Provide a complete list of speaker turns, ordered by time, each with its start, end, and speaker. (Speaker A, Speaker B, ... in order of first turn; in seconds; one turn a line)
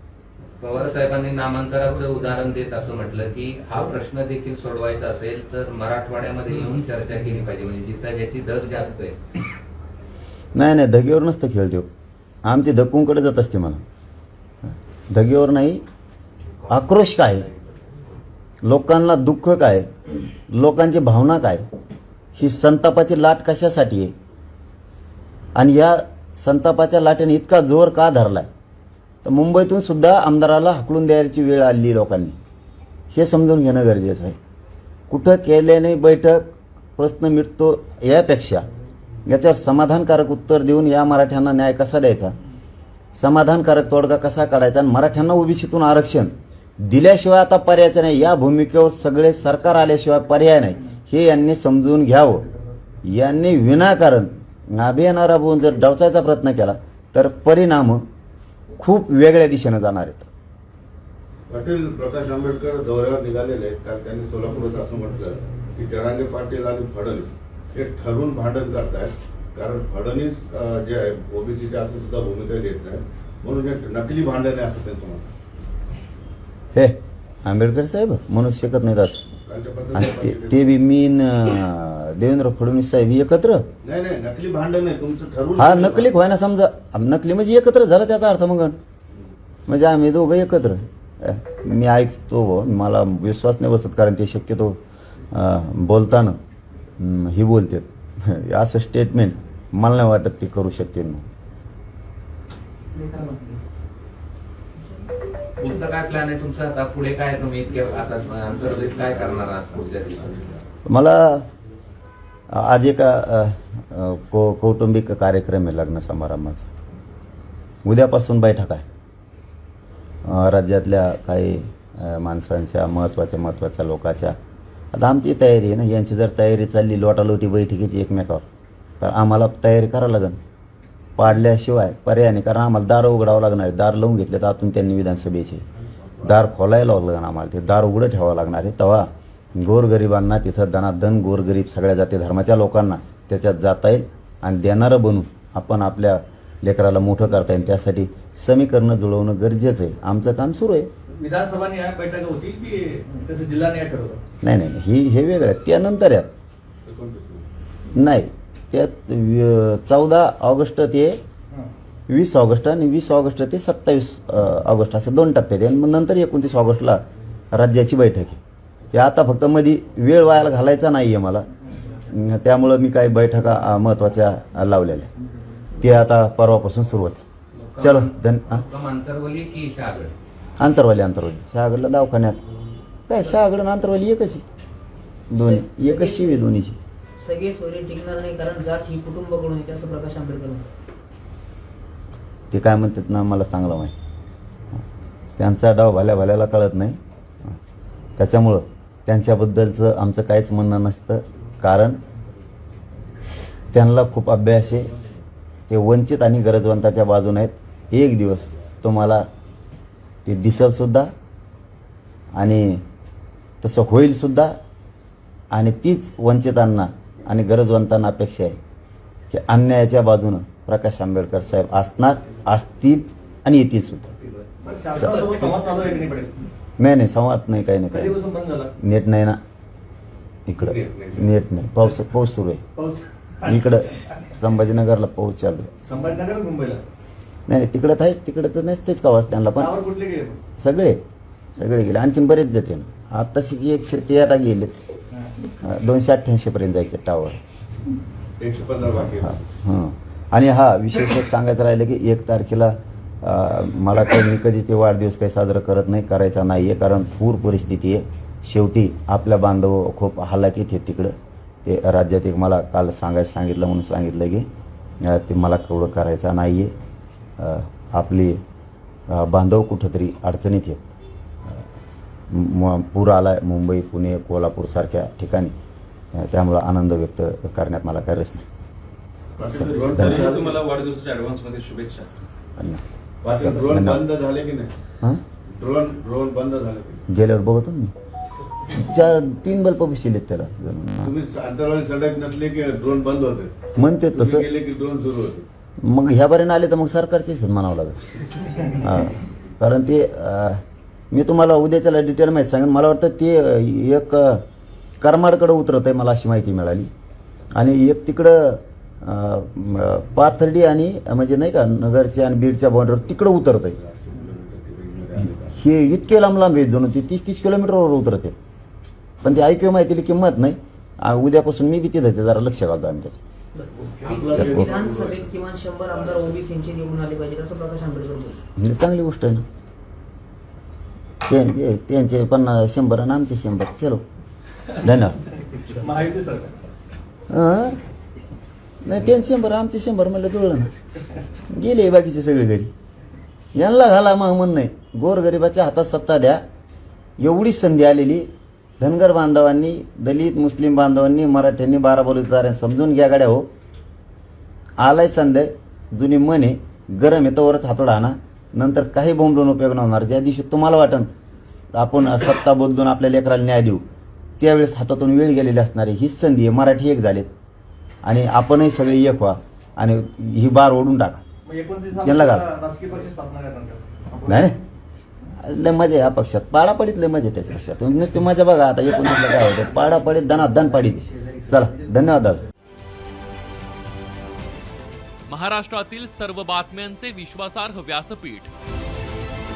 Speaker A: 0.6-9.1
Speaker B: 10.5-11.9
Speaker B: 12.4-13.8
Speaker B: 15.1-15.8
Speaker B: 16.7-17.5
Speaker B: 18.6-19.9
Speaker B: 20.5-21.6
Speaker B: 22.3-24.1
Speaker B: 25.6-28.5
Speaker B: 29.2-32.4
Speaker B: 33.1-34.4
Speaker B: 35.1-38.6
Speaker B: 39.3-42.3
Speaker B: 43.1-52.5
Speaker B: 53.0-58.0
Speaker B: 58.8-60.3
Speaker C: 61.5-75.3
Speaker B: 76.7-79.2
Speaker C: 79.5-80.7
Speaker B: 80.0-83.7
Speaker C: 83.8-86.1
Speaker B: 85.6-88.8
Speaker B: 89.7-94.8
Speaker B: 95.3-96.4
Speaker B: 97.0-101.3
Speaker A: 105.6-110.4
Speaker C: 108.6-110.5
Speaker B: 110.8-111.5
Speaker B: 112.5-116.7
Speaker B: 117.8-118.9
Speaker B: 120.2-124.4
Speaker B: 124.9-128.4
Speaker B: 129.0-130.4
Speaker B: 131.2-135.6
Speaker B: 136.2-150.9
Speaker D: 151.1-154.2
Speaker B: 154.4-156.3
Speaker C: 156.8-157.4
Speaker B: 157.9-161.2
Speaker B: 162.1-167.0
Speaker B: 167.5-168.4
Speaker B: 168.9-175.1
Speaker B: 175.8-177.2
Speaker A: 177.6-180.1
Speaker B: 177.8-178.6
Speaker B: 180.6-182.4
Speaker B: 183.1-184.4
Speaker B: 185.3-186.8
Speaker E: 185.4-186.5
Speaker E: 187.2-190.7
Speaker B: 192.5-193.9
Speaker B: 195.4-197.0
Speaker B: 198.2-202.0
Speaker B: 203.7-204.9
Speaker B: 205.7-209.2
Speaker B: 210.2-211.1
Speaker B: 212.4-212.8
Speaker B: 213.6-214.5
Speaker B: 215.5-218.6
Speaker B: 219.3-224.1
Speaker D: 224.2-226.3
Speaker B: 224.9-225.6
Speaker B: 226.8-228.2
Speaker D: 227.9-228.7
Speaker B: 228.8-229.4
Speaker B: 230.5-232.6
Speaker C: 230.6-231.3
Speaker D: 232.7-233.6
Speaker B: 233.4-236.1
Speaker D: 235.9-236.8
Speaker B: 237.5-239.8
Speaker D: 239.6-240.4
Speaker B: 240.6-241.0
Speaker B: 241.6-244.7
Speaker B: 245.6-247.4
Speaker C: 248.4-249.4
Speaker B: 249.2-261.1
Speaker B: 261.6-264.4
Speaker B: 265.0-266.7
Speaker B: 267.4-268.4
Speaker B: 269.1-270.9
Speaker B: 272.3-275.5
Speaker B: 276.1-278.4
Speaker C: 279.4-280.6
Speaker B: 279.5-280.3
Speaker F: 279.7-282.1
Speaker B: 282.6-284.0
Speaker C: 283.2-284.7
Speaker C: 285.5-287.0
Speaker B: 287.1-287.9
Speaker B: 288.7-291.1
Speaker C: 291.0-293.5
Speaker B: 293.8-294.4
Speaker C: 294.1-295.4
Speaker B: 295.8-298.0
Speaker B: 298.6-304.4
Speaker B: 305.0-306.9
Speaker B: 307.6-313.8
Speaker C: 313.7-315.6
Speaker B: 315.5-318.3
Speaker B: 319.2-323.2
Speaker E: 323.5-328.4
Speaker C: 323.8-326.4
Speaker B: 324.3-324.8
Speaker B: 328.6-329.4
Speaker B: 331.2-334.0
Speaker B: 334.7-335.2
Speaker D: 335.8-336.5
Speaker B: 337.3-337.8
Speaker B: 338.8-340.7
Speaker B: 341.5-342.7
Speaker B: 343.6-346.4
Speaker B: 347.2-348.2
Speaker B: 348.8-353.5
Speaker B: 354.8-361.1
Speaker B: 361.7-363.8
Speaker B: 364.4-367.3
Speaker B: 368.0-371.2
Speaker D: 371.4-374.2
Speaker B: 371.9-372.5
Speaker B: 374.2-374.6
Speaker B: 375.4-382.4
Speaker G: 385.3-388.5